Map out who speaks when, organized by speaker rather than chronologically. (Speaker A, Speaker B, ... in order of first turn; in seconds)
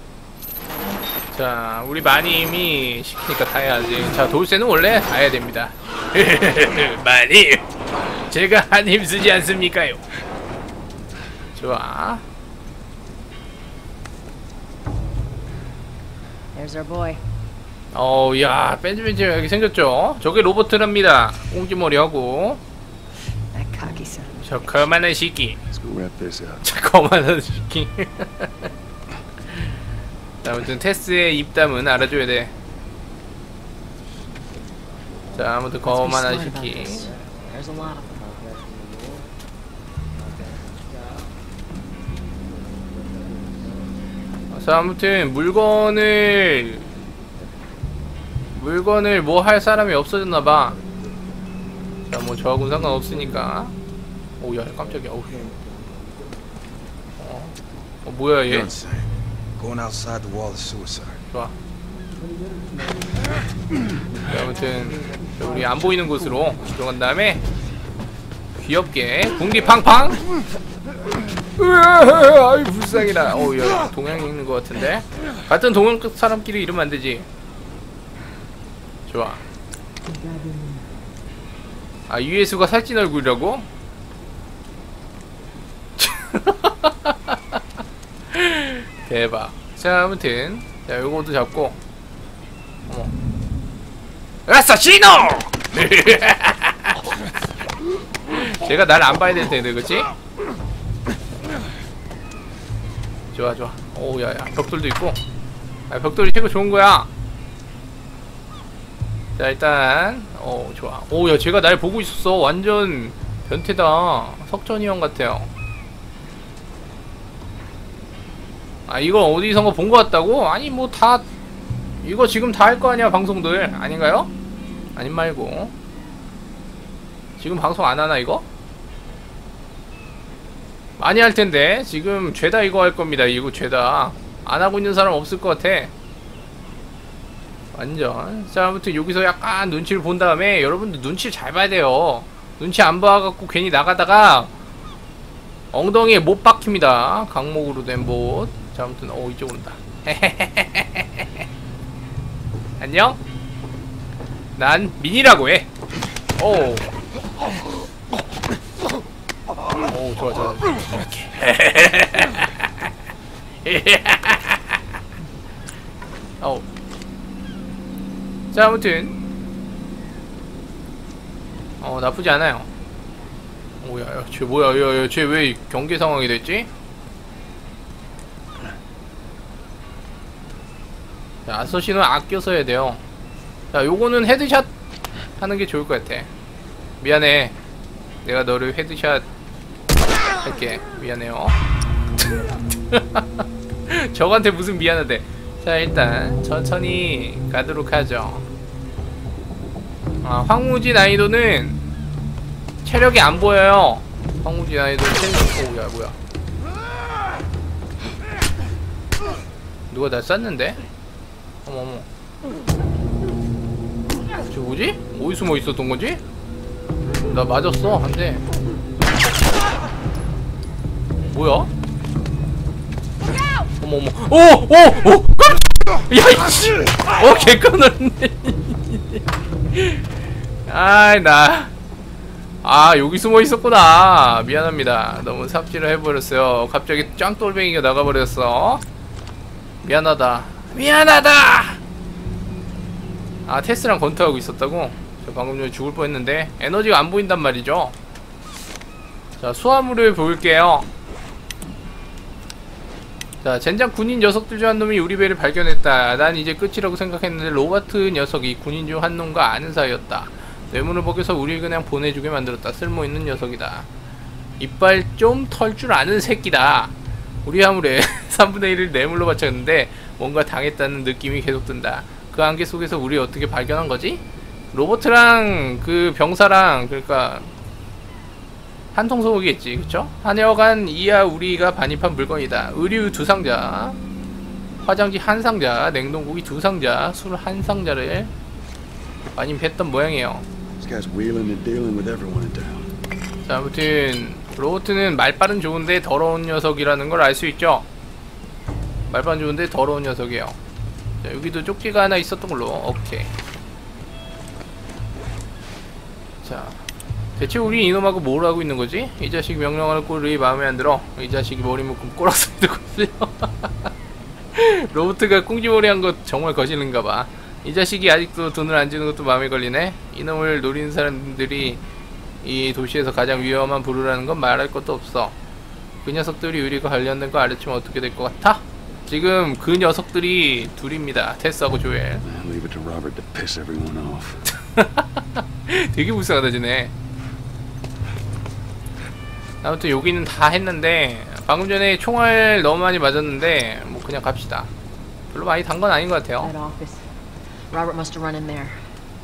Speaker A: 1.3-7.6, 8.3-10.1, 11.5-12.2, 17.9-22.6, 24.4-25.6, 26.6-28.7, 30.4-32.5, 35.3-37.1, 44.5-46.9, 48.5-50.8, 52.1-53.7, 54.4-55.4, 57.2-58.7, 64.2-67.4, 68.5-70.2, 71.5-77.3, 79.1-79.4, 82.1-83.7, 86.0-87.4, 88.3-91.8, 94.5-97.1, 98.3-100.1, 103.3-105.2, 105.9-107.1, 109.4-115.5, 118.9-121.2, 122.0-124.3, 125.0-125.7, 127.4-128.4, 131.0-135.9, 137.7-144.5, 145.7-151.4, 152.8-153.2, 154.6-155.7, 156.4-156.8, 159.8-162.8, 163.6-164.8, 168.5-169.1, 171.8-172.7, 173.8-176.7, 181.4-183.0, 183.7-184.7, 185.4-186.3, 187.0-187.5, 188.2-189.2, 190.4-191.6, 192.2-198.5, 200.2-201.8, 202.8-206.2, 209.9-210.8, 211.7-212.1, 214.5-216.2, 217.3-218.4, 221.2-221.7, 223.8-229.2, 229.7-230.0, 230.7-231.7, 232.6-238.8, 239.8-241.8, 243.4-247.9, 249.4-250.9, 253.4-263.9, 264.6-266.9, 267.4-274.2, 274.7-277.5, 278.9-284.0, 284.8-288.3, 289.4-290.4, 293.5-297.9, 299.1-300.6, 301.2-303.3, 306.4-306.8, 307.4-313.9, 314.5-321.8, 322.4-325.3, 326.0-332.2, 334.5-336.9, 339.6-344.7, 345.3-346.5
Speaker B: 16.5-17.2, 23.5-24.6, 35.8-38.2, 80.0-81.0, 346.4-347.1, 347.7-348.9
Speaker C: 25.7-26.6, 290.8-292.9, 332.2-334.4